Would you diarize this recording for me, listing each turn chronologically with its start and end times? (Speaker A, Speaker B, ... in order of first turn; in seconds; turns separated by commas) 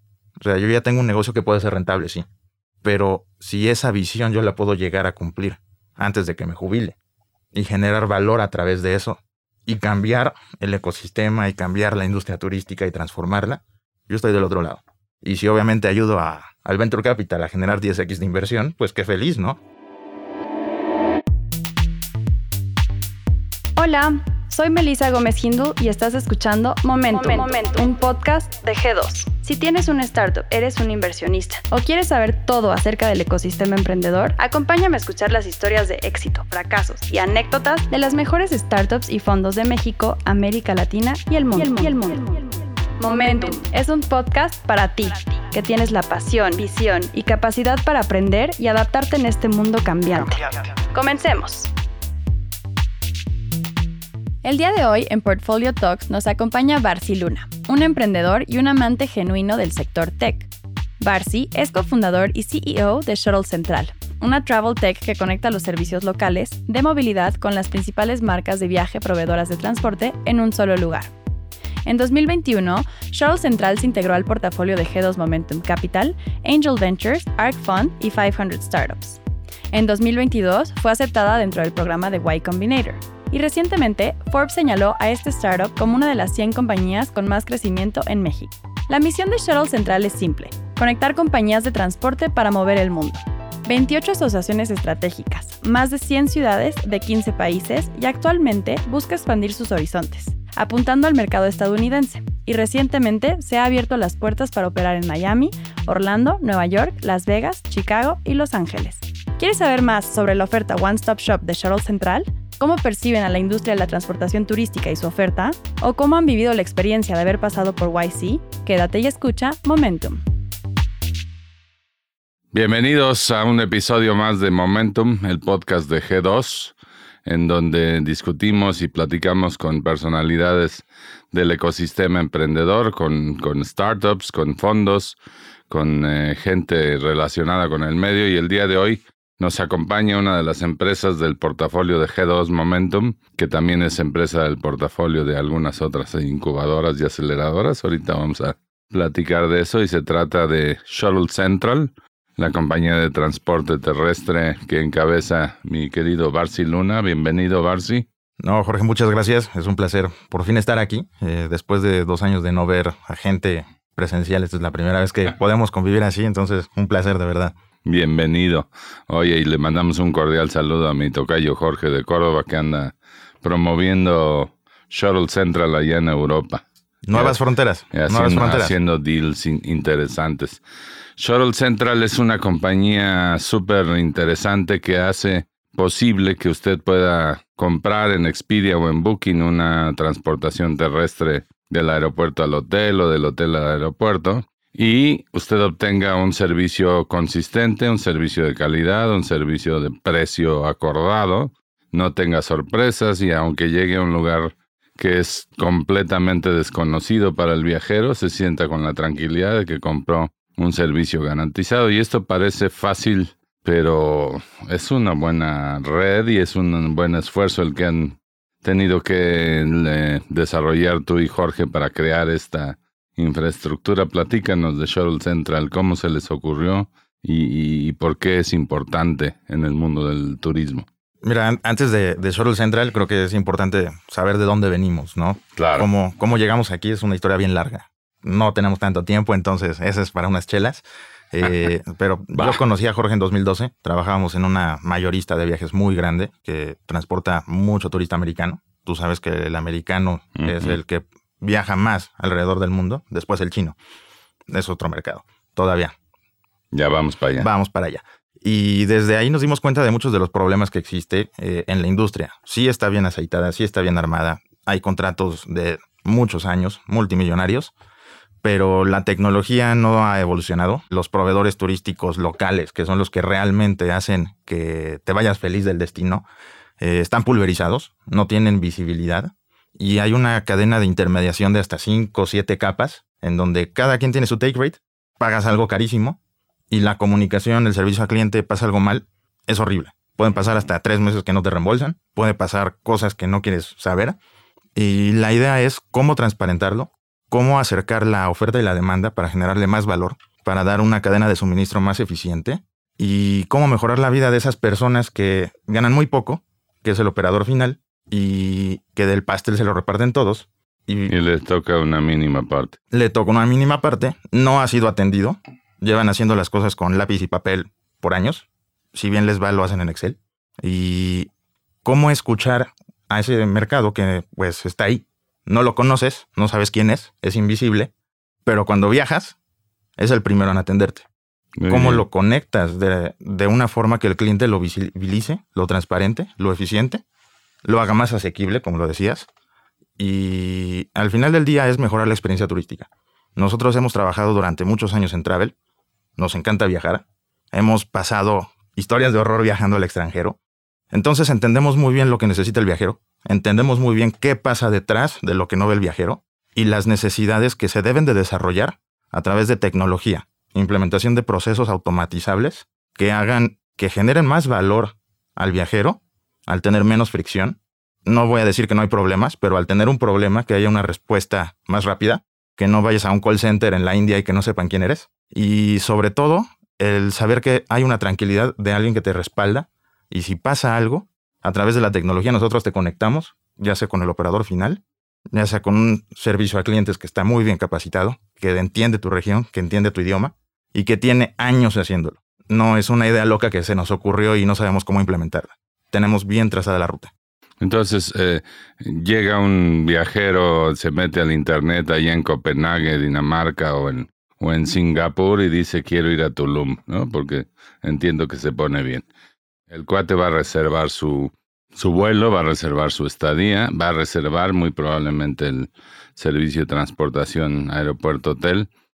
Speaker A: 0.4-2.2, Speaker A: 2.8-7.0, Speaker A: 7.5-19.6, Speaker B: 23.8-51.7, Speaker B: 54.4-60.5, Speaker B: 61.0-71.1, Speaker B: 71.8-79.2, Speaker B: 79.7-120.2, Speaker C: 122.5-135.2, Speaker C: 135.7-158.1, Speaker A: 158.4-167.5, Speaker C: 167.8-176.6, Speaker A: 177.0-178.8, Speaker C: 177.9-180.6, Speaker C: 181.2-230.9, Speaker A: 231.2-253.8, Speaker C: 235.6-235.9, Speaker C: 241.4-241.7, Speaker C: 250.3-250.8, Speaker A: 254.5-255.9, Speaker C: 256.7-257.5, Speaker A: 257.4-267.7, Speaker A: 268.4-276.2, Speaker A: 276.8-286.2, Speaker A: 286.7-294.2, Speaker A: 294.8-311.1, Speaker C: 311.1-312.8, Speaker A: 312.9-321.3, Speaker A: 321.9-327.9, Speaker A: 328.4-329.4, Speaker A: 330.0-331.1, Speaker C: 331.6-332.1, Speaker A: 331.7-337.0, Speaker A: 337.6-339.3, Speaker A: 340.0-345.5, Speaker A: 346.2-350.4, Speaker A: 350.9-384.8, Speaker A: 385.3-397.1, Speaker C: 397.6-409.1, Speaker C: 409.7-418.7